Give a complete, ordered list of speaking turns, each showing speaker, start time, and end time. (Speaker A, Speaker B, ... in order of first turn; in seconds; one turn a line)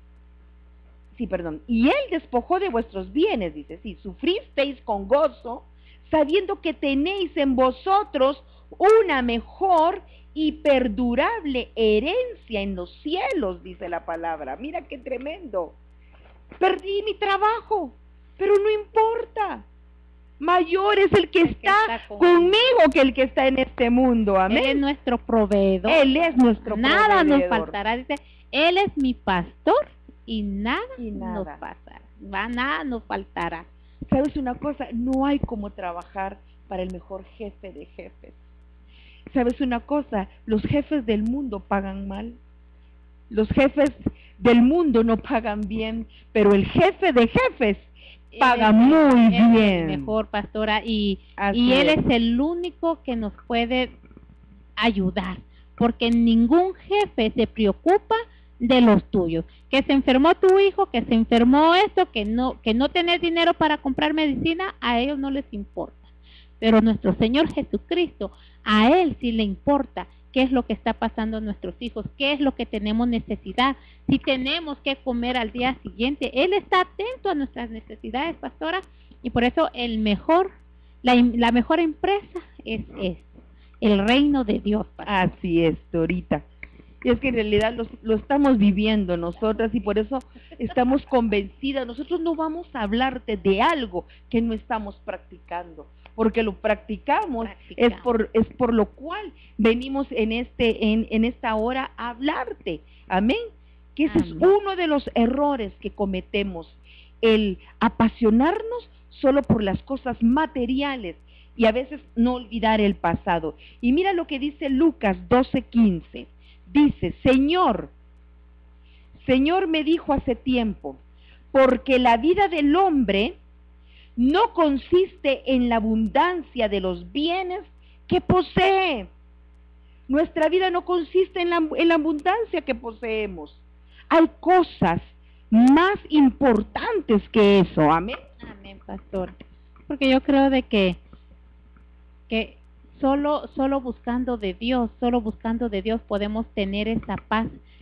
Speaker A: 1.1-15.8
Speaker A: 16.6-19.6
Speaker A: 20.4-24.8
Speaker B: 21.4-22.6
Speaker B: 24.5-33.7
Speaker A: 25.9-27.7
Speaker A: 31.0-31.6
Speaker A: 34.1-38.4
Speaker A: 39.3-42.4
Speaker A: 43.3-50.1
Speaker B: 48.3-53.9
Speaker A: 51.4-52.0
Speaker B: 54.8-80.5
Speaker B: 81.0-85.3
Speaker A: 85.0-86.5
Speaker A: 87.0-117.9
Speaker B: 97.4-98.1
Speaker B: 104.1-104.5
Speaker A: 119.2-121.0
Speaker A: 121.5-123.4
Speaker A: 124.2-129.1
Speaker A: 130.1-138.2
Speaker B: 138.4-139.3
Speaker B: 139.9-141.0
Speaker B: 142.3-147.5